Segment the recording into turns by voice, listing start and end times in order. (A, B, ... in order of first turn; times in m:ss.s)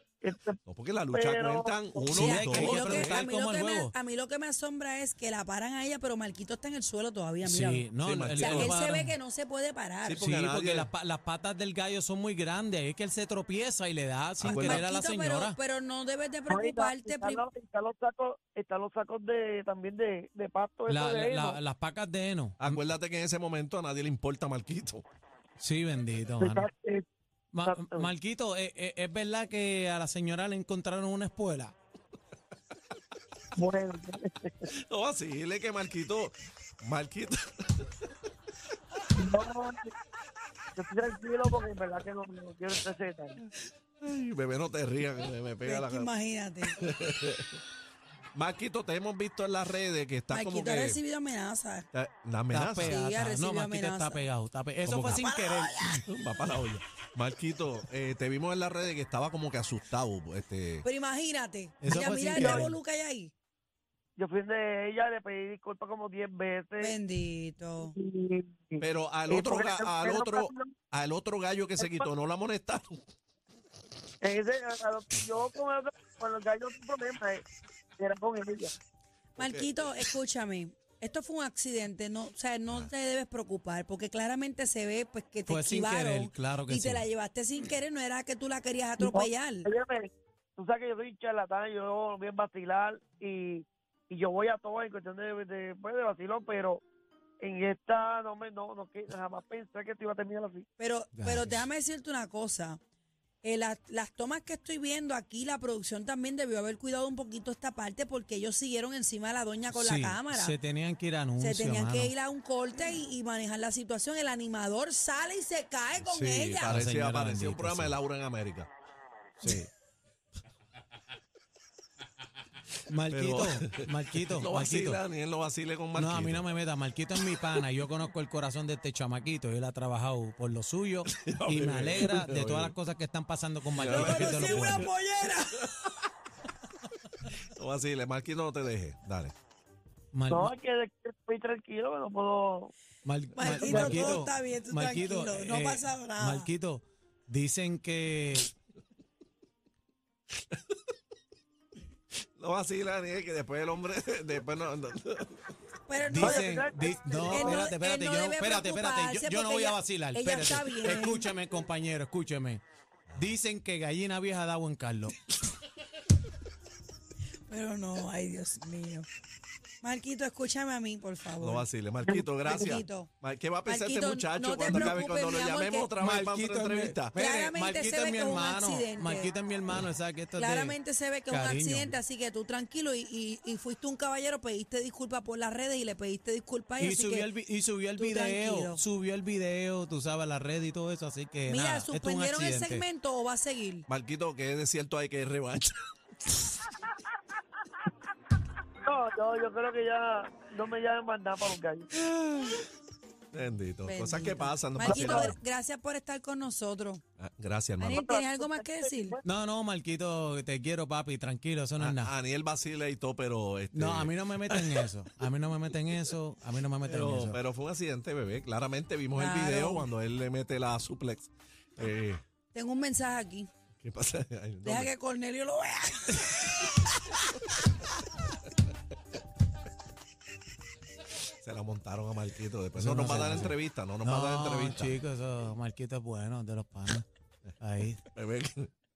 0:00.2-0:00.6 A
0:00.7-0:03.3 B
0:01.1-0:02.7 A
0:02.1-0:03.9 C
0:02.1-0:10.2 D
0:07.4-0:09.2 C
0:08.0-0:08.9 B
0:10.0-0:10.9 B
0:10.2-0:15.6 C
0:14.4-0:14.9 B
0:14.6-0:17.4 D
0:16.5-0:21.6 A
0:20.9-0:22.8 C
0:22.6-0:25.0 B
0:25.6-0:26.7 C
0:26.4-0:27.0 A
0:27.5-0:31.8 C
0:27.7-0:28.1 A
0:33.6-0:34.7 A
0:34.7-0:37.9 B
0:39.2-0:39.9 A
0:40.8-0:43.4 A
0:44.0-0:46.1 B
0:45.6-0:46.9 D
0:46.8-0:47.6 B
0:48.3-0:51.0 B
0:50.3-0:51.9 D
0:51.9-0:53.0 B
0:52.5-0:55.9 C
0:52.8-0:54.2 D
0:54.9-0:55.3 B
0:55.0-0:56.0 D
0:56.1-1:00.8 B
1:00.8-1:03.3 D
1:01.8-1:02.8 C
1:02.3-1:02.7 A
1:04.2-1:06.9 A
1:06.8-1:07.9 D
1:07.9-1:10.7 A
1:08.8-1:13.0 B
1:11.8-1:12.0 A
1:14.2-1:17.4 A
1:18.0-1:18.7 A
1:19.4-1:29.7 D
1:19.4-1:20.1 B
1:25.5-1:27.1 C
1:29.0-1:36.8 A
1:37.4-1:40.7 A
1:40.8-1:42.8 D
1:41.1-1:41.7 C
1:43.4-1:50.6 D
1:49.7-1:52.1 C
1:51.4-1:56.8 D
1:56.0-1:58.7 B
1:56.7-1:58.0 C
1:59.4-1:59.7 C
2:02.9-2:05.0 C
2:03.1-2:06.5 B
2:05.9-2:14.9 C
2:11.1-2:12.8 B
2:13.7-2:14.9 B
2:13.8-2:15.6 D
2:17.6-2:19.3 B
2:20.1-2:20.5 C
2:20.3-2:22.7 A
2:23.0-2:28.5 C
2:23.3-2:26.5 D
2:23.5-2:24.1 A
2:32.4-2:35.4 B
2:35.9-2:36.4 D
2:36.1-2:42.6 C
2:36.2-2:37.7 A
2:37.0-2:41.3 D
2:43.1-2:43.3 B
2:43.1-2:45.2 C
2:47.5-2:49.1 D
2:49.8-2:51.7 D
2:51.4-2:57.2 B
2:52.4-2:53.1 D
2:53.7-2:56.0 D
2:56.0-3:00.8 C
2:57.1-2:59.4 D
3:00.3-3:07.3 D
3:01.3-3:01.9 C
3:06.8-3:12.8 C
3:08.0-3:08.8 D
3:11.4-3:13.9 D
3:13.9-3:15.8 B
3:18.8-3:21.9 A
3:22.0-3:22.7 B
3:23.3-3:25.4 B
3:23.8-3:27.0 D
3:27.2-3:28.0 B
3:27.8-3:29.2 D
3:28.0-3:29.2 A
3:29.2-3:32.1 C
3:31.8-3:34.9 B
3:33.7-3:37.4 C
3:36.8-3:42.2 B
3:39.2-3:39.9 D
3:42.5-3:43.5 D
3:43.8-3:44.9 B
3:44.6-3:46.8 D
3:51.4-3:55.0 B
3:52.7-3:57.1 C
3:57.6-3:58.0 C
3:58.1-3:58.7 B